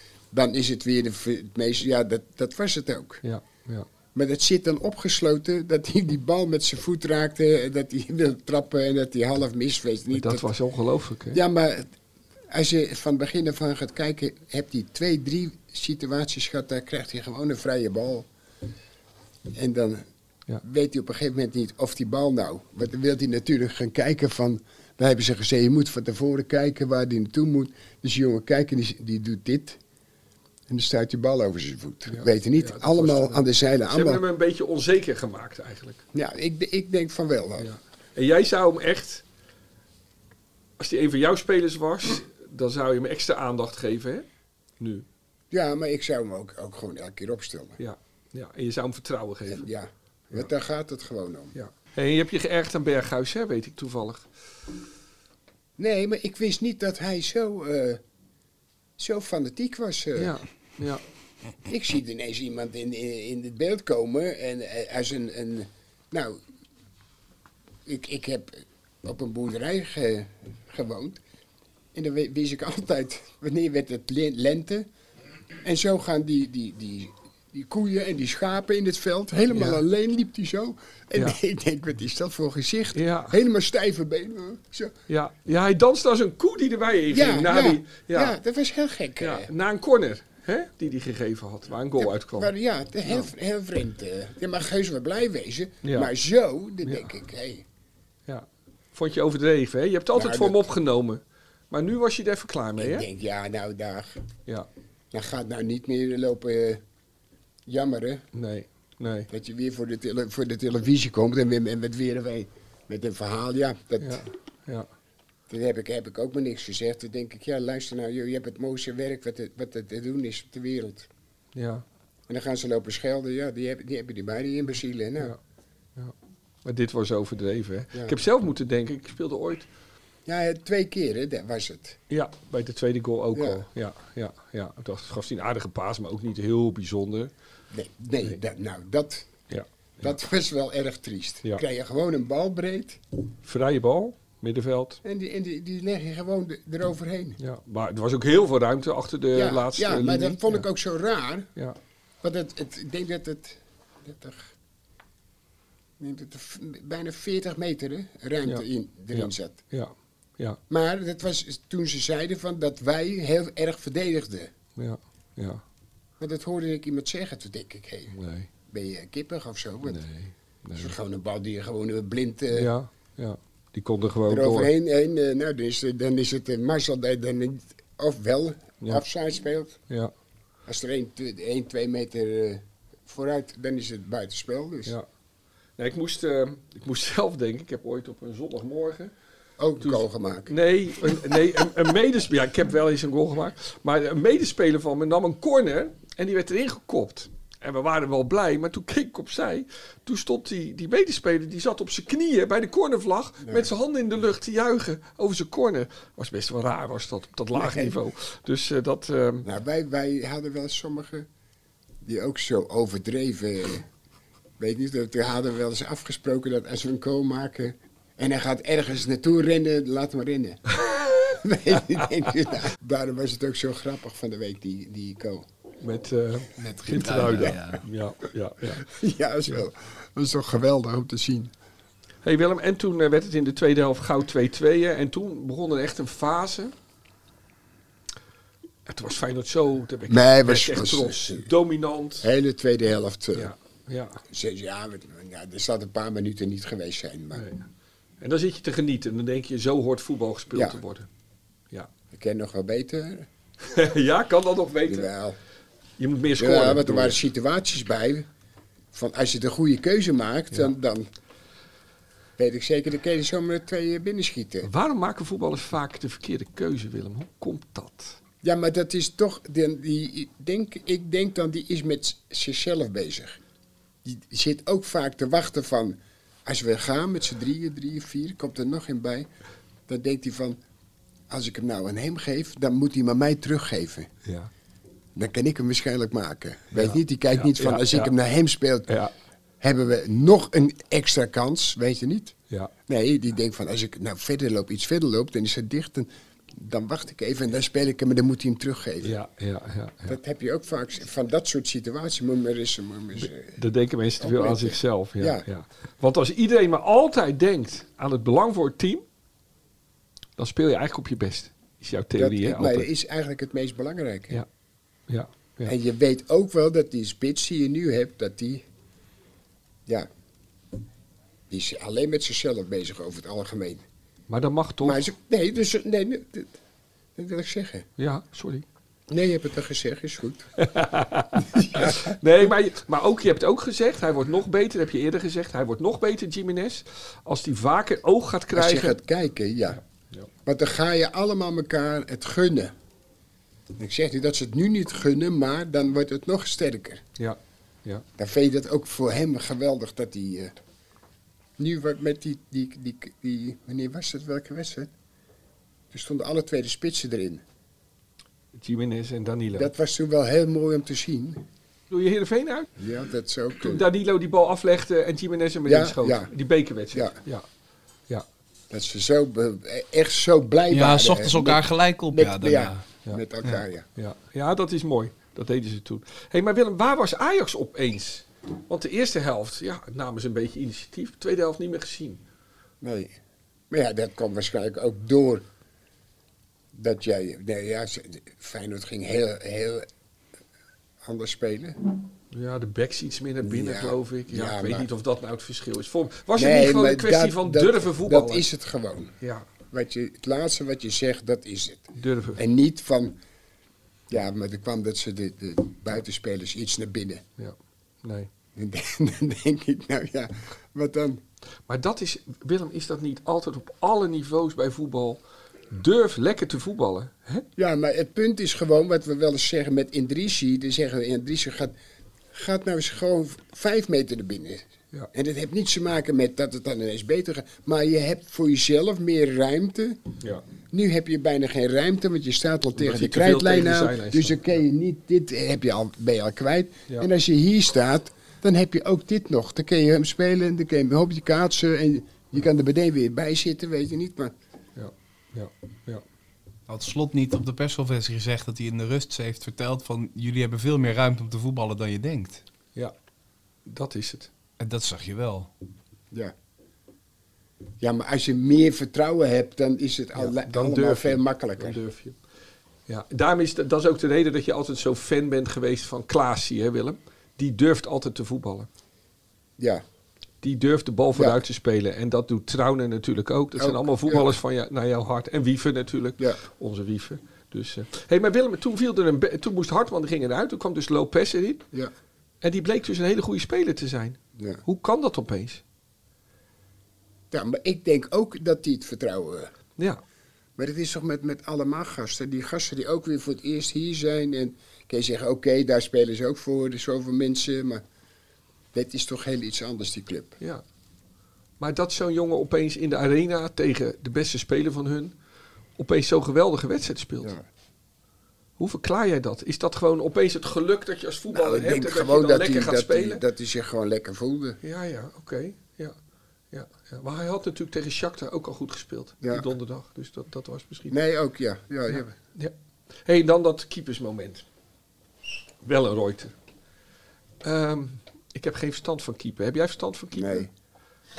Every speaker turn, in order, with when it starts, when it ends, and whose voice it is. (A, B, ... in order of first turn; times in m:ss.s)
0:00.3-0:03.2 A
0:03.2-0:03.9 B
0:04.1-0:10.5 A
0:10.1-0:11.4 B
0:11.3-0:11.9 A
0:12.5-0:18.3 A
0:19.5-0:20.0 A
0:20.6-0:29.8 A
0:30.7-0:34.2 A
0:32.0-0:36.0 B
0:36.1-0:37.7 A
0:37.6-0:39.2 B
0:40.8-0:44.2 B
0:44.8-0:45.0 B
0:45.5-0:47.8 A
0:47.8-0:49.7 B
0:49.4-0:51.6 A
0:51.5-0:54.2 B
0:55.8-0:58.0 A
0:59.0-1:00.4 A
1:00.2-1:01.0 B
1:01.6-1:06.4 A
1:07.8-1:11.2 A
1:11.9-1:14.9 A
1:15.6-1:24.9 A
1:19.5-1:19.8 B
1:22.9-1:23.4 B
1:25.1-1:28.3 B
1:27.1-1:29.5 A
1:29.2-1:32.5 B
1:32.0-1:37.6 A
1:35.8-1:36.1 B
1:36.8-1:37.1 B
1:38.3-1:43.1 B
1:40.1-1:40.6 A
1:42.8-1:44.2 A
1:45.1-1:46.8 A
1:47.7-1:48.2 A
1:48.3-1:49.3 B
1:49.3-1:54.3 A
1:54.0-1:54.9 B
1:55.5-2:01.1 A
2:01.5-2:01.8 B
2:02.3-2:05.3 A
2:06.6-2:09.7 B
2:10.2-2:12.0 A
2:12.1-2:17.3 B
2:13.3-2:13.6 A
2:17.7-2:19.3 A
2:19.5-2:20.1 B
2:20.0-2:23.0 A
2:23.4-2:25.0 B
2:25.0-2:27.4 A
2:27.4-2:30.7 B
2:29.3-2:31.5 A
2:32.2-2:34.5 A
2:36.0-2:39.6 A
2:38.4-2:40.6 B
2:40.7-2:44.5 A
2:44.8-2:45.6 B
2:46.2-2:48.2 A
2:48.1-2:48.5 B
2:48.7-2:50.0 A
2:49.8-2:50.9 B
2:50.8-2:52.7 A
2:52.5-2:54.7 B
2:54.3-2:59.8 A
3:00.6-3:05.0 A
3:05.8-3:09.1 B
3:09.6-3:10.5 A
3:09.8-3:29.5 B
3:23.4-3:23.7 A
3:27.5-3:28.0 A
3:29.4-3:31.3 A
3:32.0-3:33.8 A
3:34.6-3:40.6 A
3:41.3-3:45.5 A
3:45.8-3:48.8 B
3:46.6-3:47.8 C
3:47.2-3:47.5 A
3:48.8-3:51.5 A
3:52.2-3:56.7 B
3:58.9-4:02.3 B
4:00.1-4:01.5 A
4:02.2-4:03.5 A
4:03.3-4:04.2 B
4:04.3-4:07.4 A
4:07.3-4:07.7 B
4:08.2-4:11.1 B
4:10.5-4:10.8 A
4:12.1-4:13.3 A
4:13.6-4:15.1 B
4:14.8-4:15.4 A
4:16.0-4:17.2 B
4:16.4-4:18.3 A
4:18.9-4:21.1 A
4:22.4-4:24.7 A
4:24.6-4:28.2 B
4:28.4-4:33.4 A
4:34.0-4:39.3 A
4:39.9-4:40.6 A
4:41.3-4:44.1 A
4:44.2-4:44.5 B
4:45.1-4:48.9 A
4:46.7-4:48.1 B
4:48.9-4:49.1 B
4:49.6-4:52.3 A
4:52.9-4:59.1 A
4:59.0-5:00.2 B
5:00.0-5:03.6 A
5:03.2-5:09.0 B
5:04.2-5:05.4 A
5:10.4-5:12.9 B
5:12.2-5:14.4 A
5:15.1-5:15.7 B
5:15.6-5:18.6 A
5:21.5-5:23.8 A
5:24.3-5:25.0 B
5:24.8-5:26.6 A
5:27.2-5:27.9 A
5:28.0-5:28.6 B
5:29.1-5:30.5 A
5:30.6-5:39.0 B
5:31.6-5:32.2 A
5:38.5-5:39.8 A
5:40.4-5:42.7 A
5:43.8-5:47.0 A
5:47.2-5:48.0 B
5:48.2-5:50.5 A
5:51.6-5:54.9 A
5:55.9-5:57.4 A
5:58.6-5:59.7 B
5:59.6-6:01.4 A
6:01.9-6:02.7 B
6:02.8-6:03.9 A
6:03.6-6:07.4 B
6:05.6-6:06.3 A
6:08.7-6:13.9 A
6:10.7-6:12.8 C
6:14.0-6:22.2 B
6:22.8-6:23.1 A
6:23.7-6:25.4 A
6:26.7-6:29.9 A
6:31.0-6:31.8 A
6:32.3-6:38.4 B
6:33.4-6:34.9 A
6:36.4-6:39.1 A
6:39.2-6:39.5 B
6:39.7-6:43.2 A
6:42.0-6:42.4 B
6:44.1-6:47.2 A
6:47.4-6:48.3 B
6:48.6-6:51.2 A
6:51.7-6:57.4 B
6:57.6-7:01.7 A
7:02.3-7:10.0 A
7:10.7-7:24.3 A
7:12.7-7:14.4 B
7:24.8-7:26.0 B
7:26.7-7:32.4 C
7:33.6-7:34.3 B
7:34.6-7:35.5 C
7:37.8-7:41.8 A
7:40.1-7:42.2 B
7:42.9-7:48.7 B
7:49.6-7:49.8 A
7:50.4-8:01.6 B
7:51.1-7:51.4 A
7:53.6-7:54.3 A
8:02.4-8:05.6 B
8:04.4-8:04.6 A
8:07.3-8:09.5 A
8:10.6-8:17.8 A
8:18.7-8:20.4 A
8:21.6-8:25.1 B
8:25.8-8:27.3 B
8:28.6-8:33.2 B
8:31.3-8:34.6 A
8:34.6-8:35.9 B
8:36.5-8:40.9 B
8:39.2-8:39.5 A
8:40.9-8:42.1 A
8:41.9-8:42.5 B
8:43.0-8:44.4 B
8:45.6-8:46.3 B
8:47.4-8:50.5 B
8:50.1-8:50.5 A